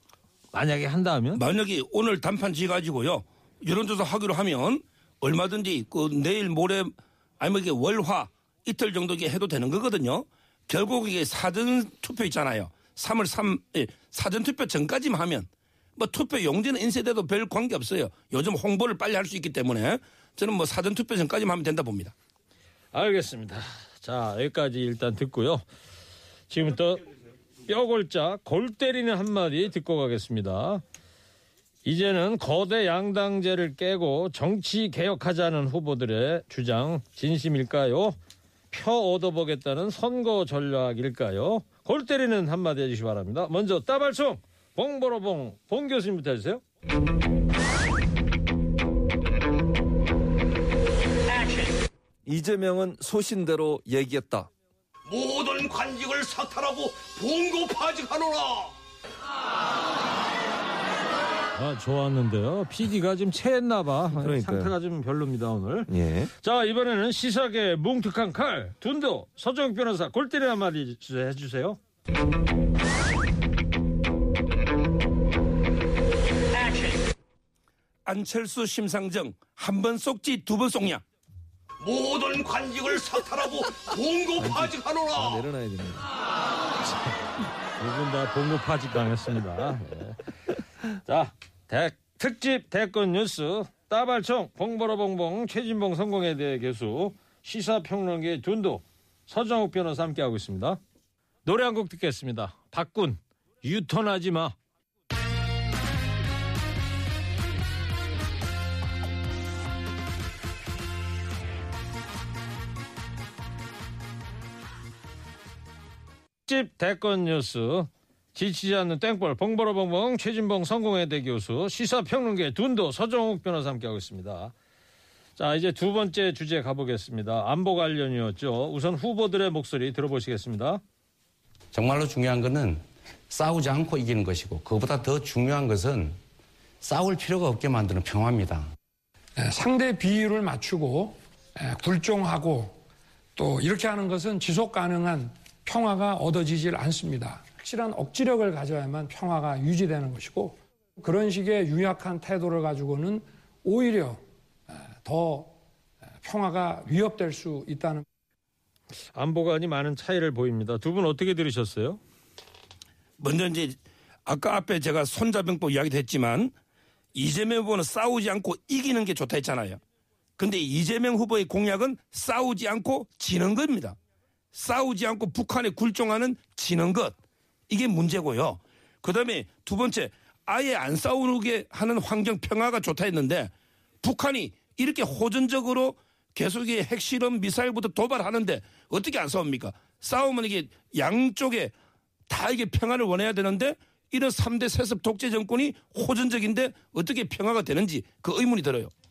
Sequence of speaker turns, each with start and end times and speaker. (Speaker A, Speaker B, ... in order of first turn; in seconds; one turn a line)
Speaker A: 0.5-1.4
Speaker B: 1.4-22.1
Speaker A: 22.9-25.6
Speaker A: 26.5-27.0
Speaker A: 27.7-30.8
Speaker A: 31.8-38.2
Speaker A: 38.7-46.6
Speaker C: 52.2-54.5
Speaker D: 55.1-58.8
Speaker A: 61.5-65.9
Speaker C: 64.2-64.7
Speaker C: 65.9-66.3
Speaker A: 66.4-71.8
Speaker B: 78.0-81.0
Speaker D: 81.8-85.4
Speaker C: 84.4-86.1
Speaker A: 87.8-90.2
Speaker A: 91.0-100.8
Speaker A: 101.4-104.5
Speaker A: 116.5-124.5
Speaker A: 125.4-130.8
Speaker E: 131.7-136.2
Speaker E: 136.8-138.7
Speaker F: 139.4-142.8
Speaker F: 143.3-155.6
Speaker F: 156.2-158.0
Speaker A: 159.1-162.0
Speaker B: 163.2-166.5
Speaker B: 167.1-169.8
Speaker B: 170.4-173.9
Speaker B: 174.5-177.2
Speaker B: 177.7-191.7
Speaker B: 192.3-198.9